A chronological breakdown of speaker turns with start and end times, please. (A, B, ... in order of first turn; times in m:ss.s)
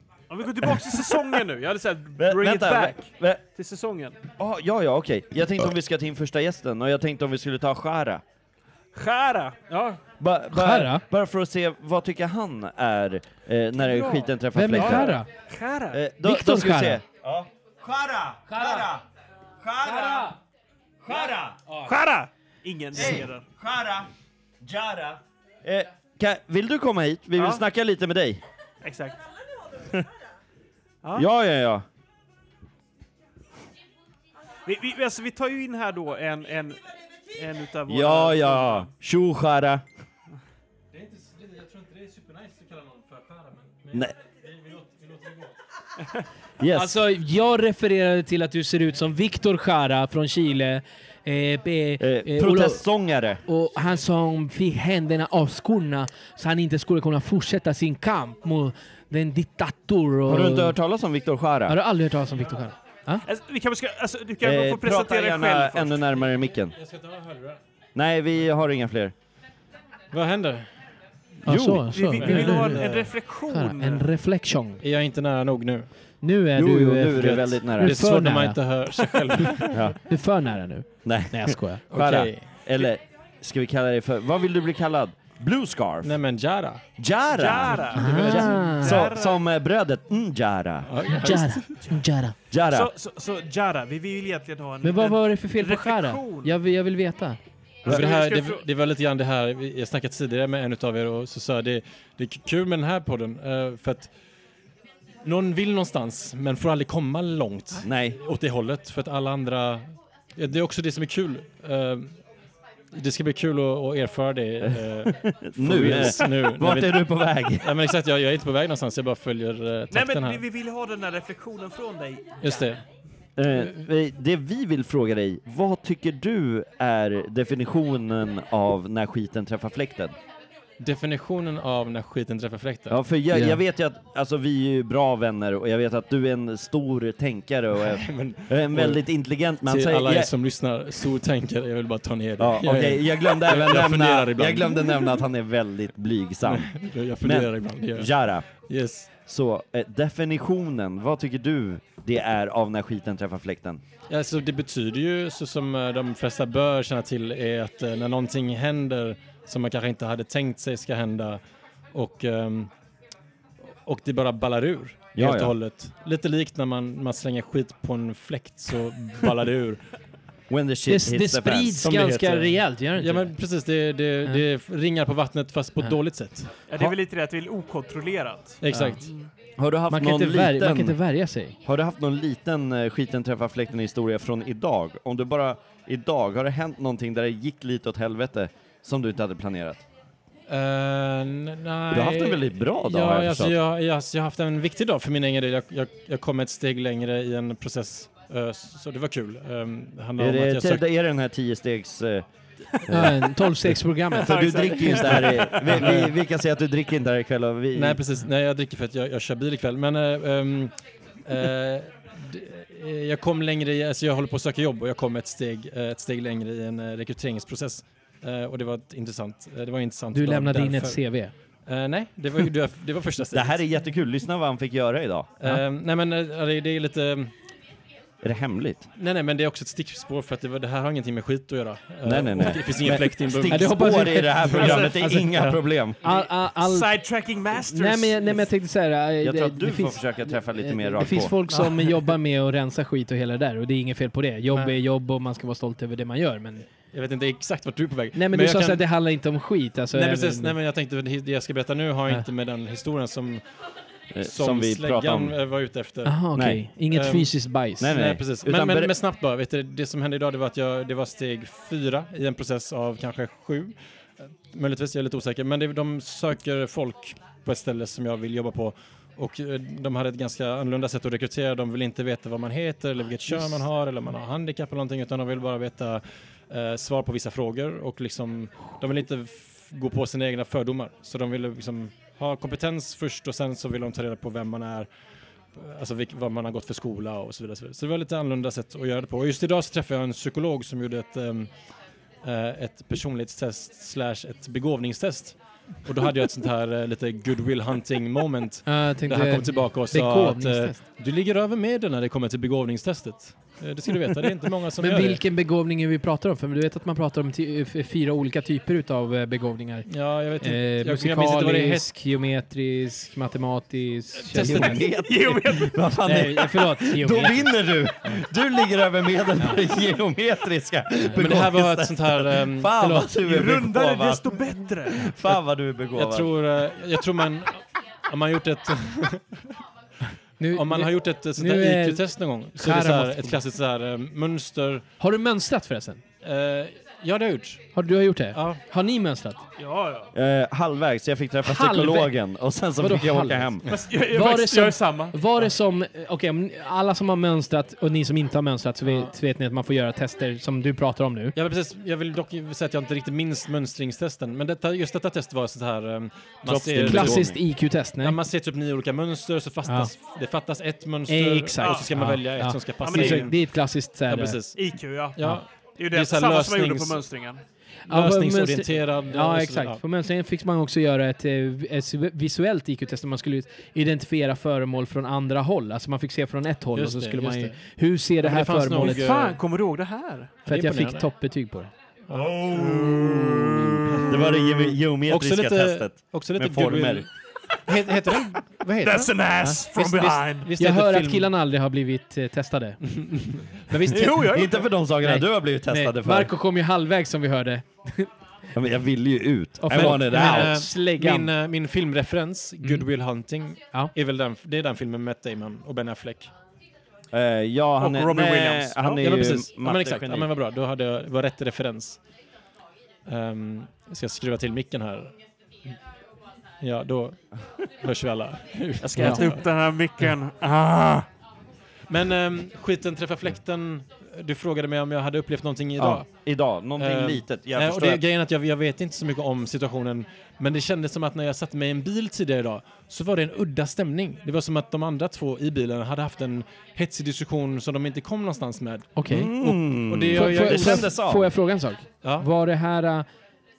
0:00.3-0:04.2 A
0:02.2-0:03.4 B
0:04.4-0:08.2 B
0:08.9-0:10.0 A
0:10.2-0:15.2 B
0:10.5-0:11.0 C
0:13.8-0:16.0 A
0:14.5-0:15.3 C
0:15.9-0:19.0 B
0:16.2-0:17.0 C
0:18.5-0:18.9 C
0:19.6-0:20.3 B
0:19.8-0:20.3 C
0:21.0-0:21.6 B
0:21.8-0:23.4 A
0:22.9-0:24.1 B
0:24.6-0:28.4 B
0:27.4-0:27.6 A
0:28.8-0:29.2 A
0:31.1-0:31.8 B
0:34.6-0:36.8 A
0:37.3-0:38.9 A
0:37.9-0:39.8 B
0:40.9-0:45.5 D
0:46.6-0:47.0 B
0:46.7-0:52.8 C
0:52.0-0:53.4 B
0:53.5-1:00.8 C
1:00.3-1:01.8 B
1:01.7-1:03.2 C
1:03.2-1:06.1 A
1:04.4-1:06.7 B
1:06.8-1:07.6 D
1:07.9-1:09.1 B
1:10.1-1:10.7 D
1:11.4-1:11.9 B
1:11.4-1:14.8 C
1:11.9-1:14.1 A
1:12.2-1:13.1 D
1:14.8-1:15.9 D
1:16.2-1:19.0 C
1:16.5-1:18.0 B
1:17.2-1:19.8 D
1:19.7-1:20.0 B
1:20.1-1:21.8 C
1:21.0-1:26.2 B
1:21.9-1:22.5 D
1:26.0-1:26.8 D
1:27.0-1:30.9 B
1:27.3-1:29.4 A
1:27.7-1:28.5 D
1:27.9-1:29.0 C
1:30.9-1:31.8 D
1:31.1-1:32.3 C
1:32.5-1:32.9 B
1:32.7-1:36.5 A
1:34.8-1:37.4 C
1:37.8-1:38.6 A
1:37.9-1:44.1 D
1:45.2-1:49.8 D
1:47.8-1:48.2 B
1:50.4-1:52.2 D
1:52.9-1:57.0 D
1:54.6-1:57.7 B
1:57.6-2:00.4 D
1:59.9-2:02.8 A
2:02.4-2:02.8 D
2:03.4-2:10.1 B
2:10.8-2:13.5 D
2:12.9-2:20.3 B
2:17.8-2:19.0 D
2:19.6-2:24.9 D
2:22.4-2:28.5 B
2:26.4-2:28.1 D
2:28.7-2:29.1 D
2:29.2-2:33.8 B
2:34.1-2:41.4 D
2:41.9-2:42.7 D
2:43.8-2:49.8 D
2:45.1-2:45.5 B
2:50.5-2:51.8 B
2:50.9-2:53.3 C
2:51.8-2:56.5 D
2:56.7-2:59.3 A
2:58.6-2:59.1 D
2:58.7-2:59.0 C
2:59.6-3:01.0 B
2:59.9-3:01.6 C
3:01.6-3:09.8 B
3:10.5-3:20.8 D
3:11.9-3:13.6 B
3:20.2-3:22.2 B
3:22.8-3:28.0 B
3:22.9-3:24.4 C
3:24.2-3:25.9 A
3:25.8-3:26.1 D
3:27.7-3:30.7 D
3:31.2-3:41.0 D
3:40.1-3:41.3 C
3:41.6-3:43.6 D
3:43.3-3:45.3 B
3:45.4-3:47.3 D
3:48.2-3:48.8 B
3:49.0-3:54.7 D
3:52.0-3:56.0 B
3:53.5-3:56.9 C
3:54.6-3:54.9 A
3:55.3-3:55.6 D
3:56.0-3:58.4 A
3:57.7-4:06.6 C
3:59.2-4:01.3 B
4:01.5-4:01.9 D
4:04.5-4:04.8 D
4:06.9-4:08.8 D
4:08.1-4:10.5 C
4:09.9-4:13.4 D
4:14.1-4:15.4 B
4:14.2-4:16.2 D
4:16.0-4:17.9 C
4:16.3-4:16.6 B
4:16.9-4:23.7 D
4:17.8-4:18.9 B
4:24.5-4:44.9 D
4:33.3-4:33.6 C
4:45.6-4:51.6 D
4:52.2-5:05.2 D
4:58.6-5:00.8 C
5:04.8-5:14.8 C
5:09.9-5:11.9 D
5:14.3-5:14.8 D
5:14.3-5:26.3 B
5:15.0-5:15.8 A
5:16.0-5:17.6 C
5:21.1-5:22.8 D
5:22.8-5:23.1 C
5:23.2-5:25.1 A
5:25.9-5:29.2 D
5:30.4-5:33.4 C
5:30.5-5:34.8 D
5:35.0-5:36.0 C
5:36.2-5:37.7 D
5:37.7-5:39.4 C
5:38.3-5:38.6 D
5:39.6-5:40.1 A
5:40.1-5:43.6 B
5:41.4-5:42.1 C
5:42.8-5:43.6 C
5:43.7-5:45.2 A
5:44.1-5:51.3 C
5:48.8-5:49.1 D
5:51.3-6:07.0 D
5:56.4-5:57.4 B
5:56.8-5:58.2 C
5:59.6-5:59.9 C
6:01.1-6:04.4 C
6:01.6-6:01.9 A
6:02.8-6:03.3 A
6:04.5-6:07.4 A
6:07.9-6:19.1 C
6:07.9-6:09.8 D
6:16.7-6:17.6 D
6:18.2-6:19.4 D
6:18.8-6:20.3 A
6:20.4-6:21.1 D
6:20.5-6:21.7 C
6:22.1-6:27.1 D
6:22.4-6:23.3 B
6:24.1-6:27.1 B
6:27.6-6:31.3 D
6:28.8-6:30.5 A
6:30.6-6:33.0 C
6:33.0-6:33.8 D
6:33.7-6:34.3 C
6:33.9-6:34.6 A
6:34.1-6:36.3 B
6:35.0-6:38.1 C
6:38.5-6:40.6 B
6:39.6-6:41.3 C
6:39.7-6:46.3 D
6:47.1-6:50.3 B
6:47.8-6:49.2 A
6:49.0-6:52.0 D
6:53.1-6:55.1 D
6:56.6-6:57.2 D
6:57.8-6:59.4 D
6:58.9-7:01.1 A
7:01.9-7:06.0 D
7:05.8-7:08.0 B
7:06.8-7:20.9 D
7:18.9-7:19.3 C
7:19.1-7:21.3 B
7:20.1-7:23.0 C
7:22.0-7:22.3 D